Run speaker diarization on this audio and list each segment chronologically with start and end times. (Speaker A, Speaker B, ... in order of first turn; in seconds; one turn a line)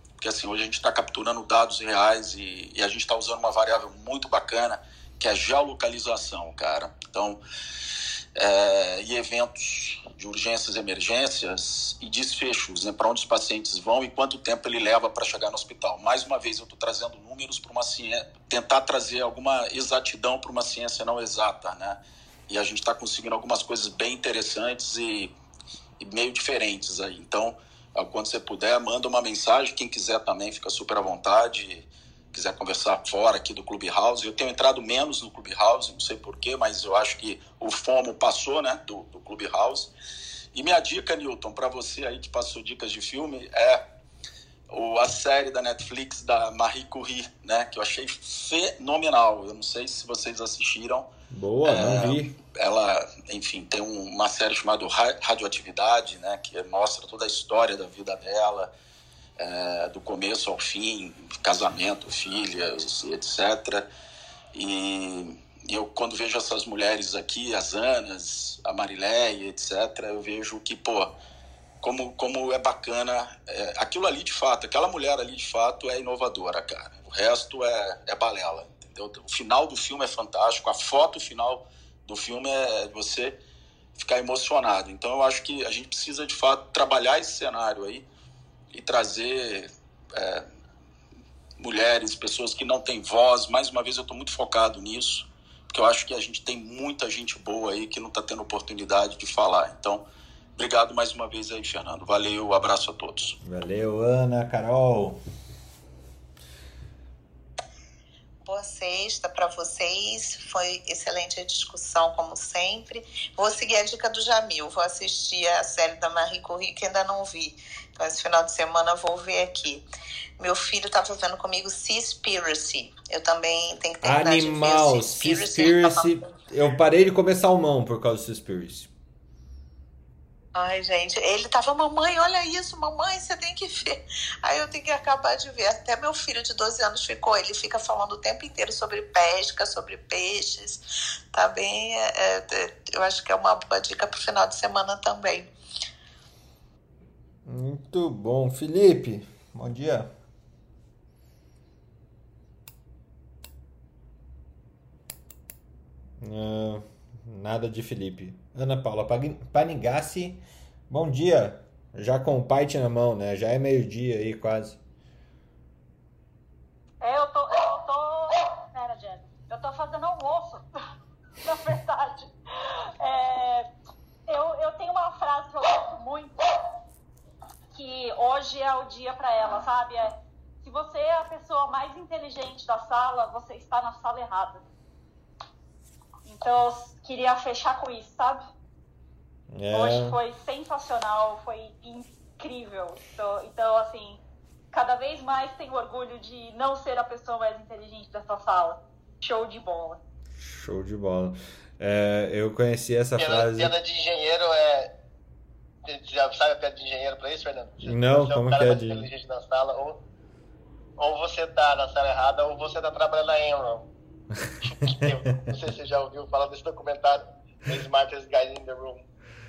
Speaker A: 0.2-7.4
Speaker A: 8.4-25.3
Speaker A: 26.0-39.9
Speaker A: 40.5-43.8
Speaker A: 44.7-51.1
Speaker B: 51.3-52.4
Speaker A: 51.6-58.7
Speaker A: 59.4-63.9
Speaker A: 64.5-71.1
Speaker A: 71.8-83.4
Speaker A: 84.0-88.1
Speaker A: 88.7-90.5
Speaker A: 91.6-100.0
Speaker A: 100.6-103.4
Speaker B: 103.4-105.2
Speaker C: 108.5-119.9
Speaker C: 120.4-126.1
Speaker B: 124.0-128.9
Speaker C: 130.6-140.8
Speaker C: 141.3-145.5
Speaker B: 147.4-150.1
Speaker B: 156.2-164.8
Speaker D: 167.0-170.7
Speaker D: 171.4-172.3
Speaker D: 173.0-173.7
Speaker D: 174.3-176.4
Speaker D: 177.7-184.6
Speaker D: 186.2-188.5
Speaker B: 189.5-190.2
Speaker D: 189.7-194.2
Speaker D: 194.7-200.0
Speaker B: 200.4-203.7
Speaker E: 203.2-204.9
Speaker E: 205.8-210.0
Speaker B: 207.8-209.1
Speaker E: 211.0-213.9
Speaker E: 214.6-219.1
Speaker B: 214.8-215.1